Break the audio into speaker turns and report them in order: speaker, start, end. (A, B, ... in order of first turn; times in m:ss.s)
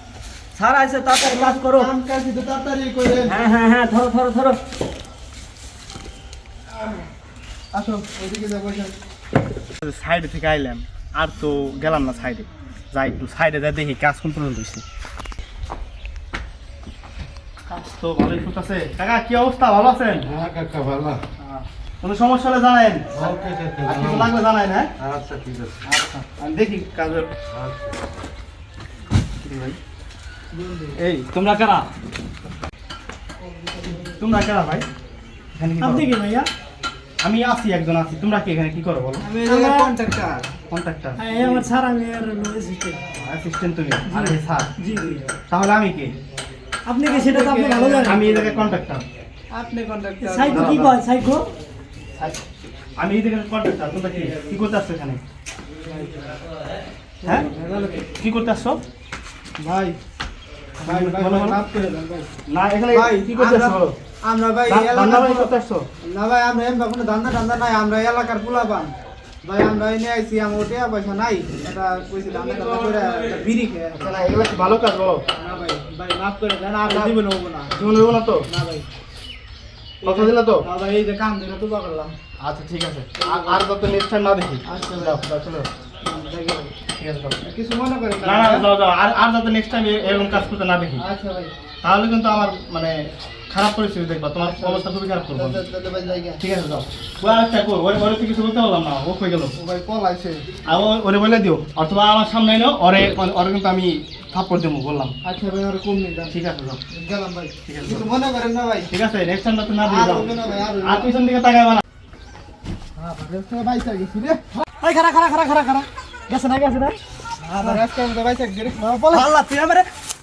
0:00.6-0:01.9 A
0:01.2-0:03.4 B
0:03.3-0:04.6 A
0:07.7-0:08.9 B
0:09.8-0:14.8 C
0:17.7-0:20.3 C
0:20.2-0:21.2 D
0:21.4-0:23.3 C
0:23.1-0:24.3 D
0:23.8-0:24.9 C
0:25.0-0:25.8 D
0:25.9-0:27.3 C
0:27.5-0:28.0 D
0:29.4-0:29.8 C
0:30.5-0:31.0 B
0:31.0-0:31.9 C
0:34.1-0:34.9 C
0:35.6-0:36.2 C
0:35.8-0:36.5 E
0:37.2-0:39.3 C
0:39.2-0:40.5 B
0:39.5-0:39.9 E
0:40.7-0:41.2 C
0:41.2-0:43.0 E
0:43.1-0:44.7 C
0:44.1-0:45.2 E
0:45.4-0:46.2 C
0:46.9-0:48.2 E
0:47.0-0:48.7 B
0:48.0-0:49.0 C
0:49.5-0:50.9 B
0:50.2-0:51.5 E
0:50.5-0:51.0 C
0:53.0-0:55.2 C
0:57.3-0:58.0 B
0:58.1-0:58.8 C
0:59.6-1:00.0 B
1:00.8-1:02.3 B
1:00.8-1:01.7 C
1:02.5-1:04.0 C
1:02.9-1:08.9 B
1:04.7-1:05.9 C
1:09.4-1:14.4 B
1:12.5-1:13.1 C
1:14.0-1:15.2 C
1:15.3-1:17.8 B
1:16.9-1:17.2 C
1:17.7-1:18.5 C
1:18.5-1:18.9 B
1:20.0-1:22.2 B
1:20.0-1:20.6 C
1:22.4-1:25.7 C
1:23.2-1:23.6 B
1:24.7-1:25.2 B
1:26.0-1:26.7 B
1:27.0-1:27.4 C
1:27.4-1:28.7 B
1:28.2-1:31.0 C
1:31.0-1:31.5 B
1:31.8-1:35.6 C
1:34.4-1:34.8 B
1:35.4-1:36.4 B
1:36.4-1:39.5 C
1:39.6-1:40.5 B
1:40.6-1:45.2 C
1:45.2-1:46.4 B
1:46.3-1:46.8 C
1:46.9-1:48.9 B
1:47.7-1:48.1 C
1:48.9-1:51.8 C
1:49.8-1:51.1 B
1:53.0-1:54.4 B
1:54.8-1:57.0 E
1:57.4-1:59.4 B
1:58.8-1:59.8 E